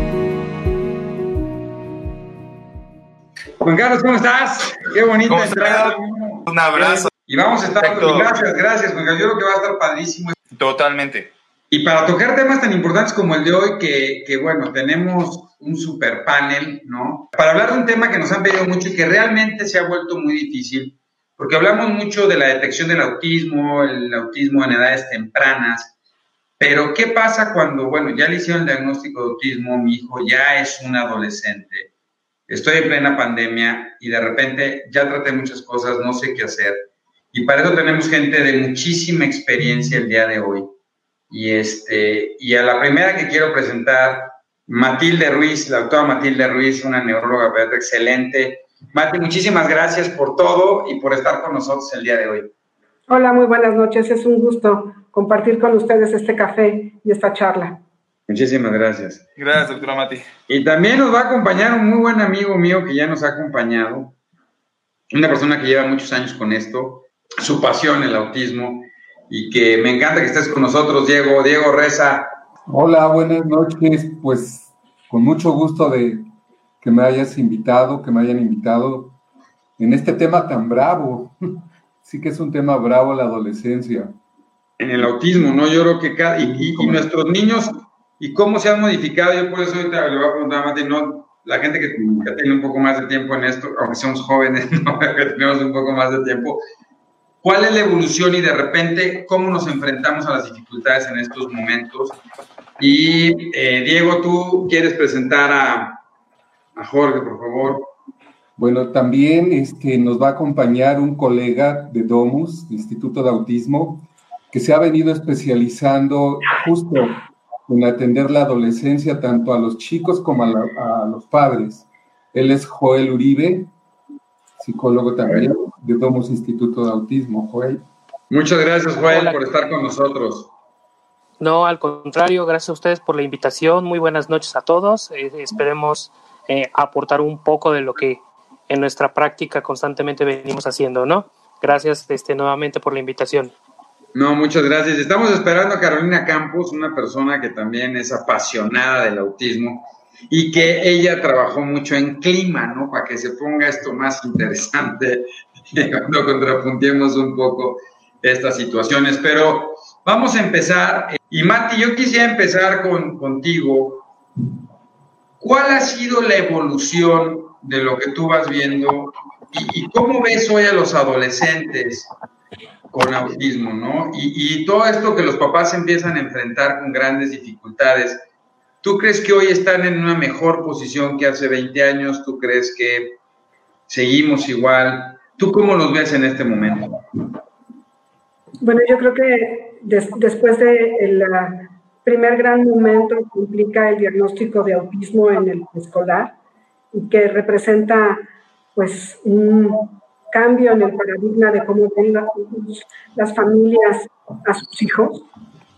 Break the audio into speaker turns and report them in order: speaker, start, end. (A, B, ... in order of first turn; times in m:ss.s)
0:03.6-0:10.4 A
0:05.2-0:07.1 B
0:07.7-0:08.3 B
0:10.5-0:11.3 B
0:11.7-0:25.9 A
0:26.6-0:31.9 A
0:32.5-0:40.7 A
0:41.3-0:52.5 A
0:53.1-0:57.8 C
0:58.3-0:59.2 A
0:59.4-1:00.3 B
1:00.5-1:04.2 A
1:05.1-1:12.4 A
1:12.7-1:16.3 D
1:16.8-1:19.2 D
1:19.8-1:21.4 D
1:22.0-1:24.2 D
1:24.8-1:36.6 A
1:26.4-1:27.0 D
1:32.0-1:32.3 D
1:37.4-1:42.2 A
1:42.8-1:46.0 A
1:46.8-1:47.9 A
1:48.6-2:03.7 D
2:04.6-2:07.8 D
2:08.3-2:10.5 A
2:09.1-2:09.4 E
2:11.4-2:23.5 E
2:24.1-2:44.1 A
2:45.4-2:52.1 A
2:52.9-2:58.2 A
2:58.8-3:03.2 A
3:03.9-3:07.0 A
3:08.6-3:16.3 C
3:16.9-3:18.2 C
3:18.7-3:25.3 C